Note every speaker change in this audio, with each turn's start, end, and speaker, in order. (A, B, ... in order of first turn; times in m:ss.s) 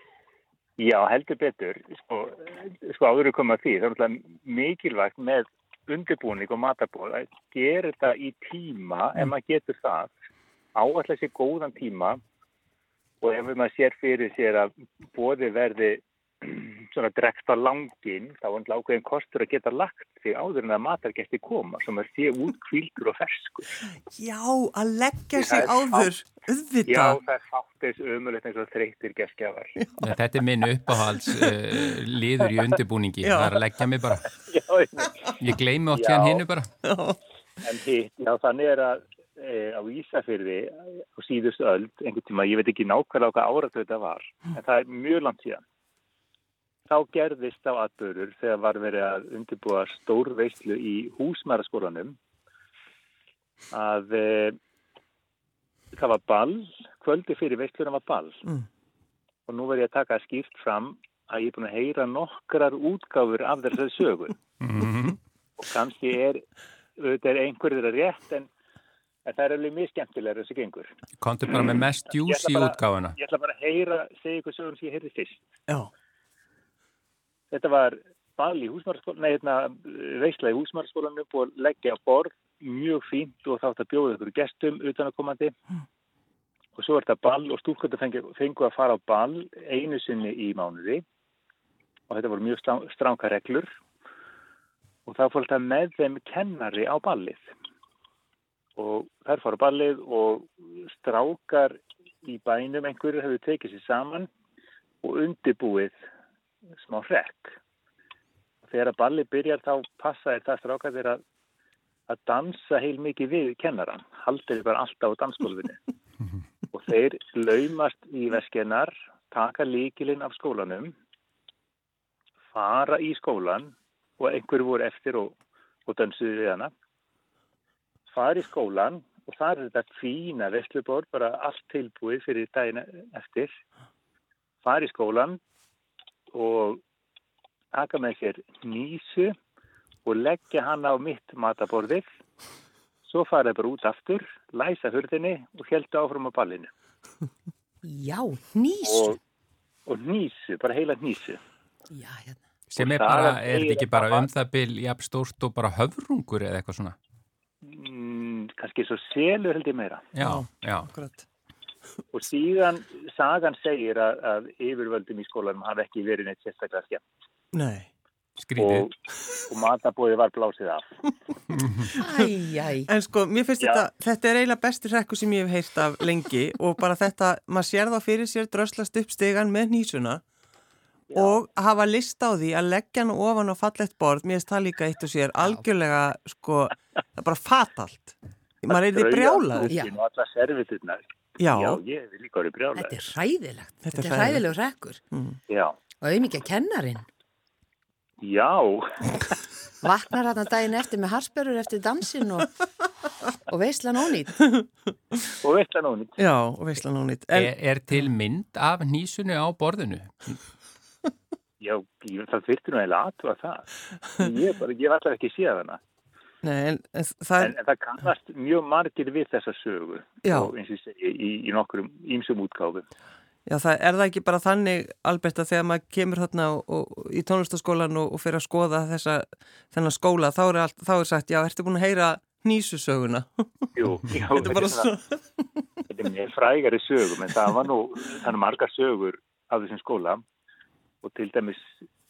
0:00.8-0:10.1 A
0:10.7-0:12.2 A
0:13.2-0:23.7 A
0:24.1-0:27.2 B
0:25.4-0:26.1 A
0:26.8-0:29.7 A
0:29.8-0:30.0 B
0:30.0-0:34.3 C
0:33.2-0:33.6 B
0:34.2-0:35.4 A
0:35.4-0:36.7 C
0:35.9-0:36.4 A
0:36.8-0:37.2 B
0:37.6-0:45.6 A
0:46.9-0:52.2 A
0:53.7-0:54.6 A
0:55.9-0:58.4 A
0:59.5-1:04.4 A
1:04.6-1:05.2 C
1:05.6-1:06.4 A
1:07.0-1:08.5 A
1:09.2-1:10.9 A
1:11.2-1:13.2 C
1:12.2-1:15.4 A
1:17.5-1:25.5 A
1:26.8-1:31.0 A
1:32.1-1:33.7 A
1:35.0-1:37.5 A
1:38.8-1:44.3 A
1:45.0-1:45.9 A
1:46.8-1:47.5 A
1:48.6-1:51.2 A
1:52.1-1:55.8 A
1:56.7-2:00.9 A
2:02.5-2:05.3 A
2:05.9-2:06.7 A
2:08.1-2:13.5 A
2:14.6-2:15.4 A
2:16.3-2:16.8 A
2:17.7-2:19.3 A
2:20.0-2:22.0 A
2:23.0-2:26.7 A
2:27.8-2:29.2 D
2:28.8-2:29.2 A
2:29.9-2:31.4 A
2:31.9-2:32.4 D
2:32.7-2:37.0 C
2:32.8-2:34.3 A
2:37.6-2:40.0 A
2:40.1-2:40.9 C
2:40.2-2:41.2 B
2:42.1-2:47.0 A
2:47.5-2:47.9 B
2:48.4-2:48.9 C
2:48.6-2:50.8 A
2:51.5-2:51.9 C
2:51.9-2:52.9 D
2:52.9-3:00.2 B
2:53.6-2:53.8 A
3:01.1-3:01.4 A
3:01.1-3:09.7 B
3:08.7-3:12.9 A
3:11.4-3:11.8 B
3:12.8-3:15.0 D
3:13.8-3:14.4 B
3:15.1-3:15.4 B
3:15.5-3:15.7 A
3:16.0-3:17.0 D
3:18.2-3:19.4 A
3:19.8-3:22.5 D
3:23.5-3:24.4 D
3:25.2-3:26.2 A
3:26.2-3:27.5 B
3:27.3-3:30.4 C
3:31.6-3:35.8 A
3:36.4-3:37.5 B
3:37.4-3:42.8 A
3:40.2-3:40.5 B
3:43.4-3:53.7 B
3:53.8-3:54.9 A
3:54.4-3:55.2 B
3:55.9-4:00.2 A
4:01.0-4:01.7 A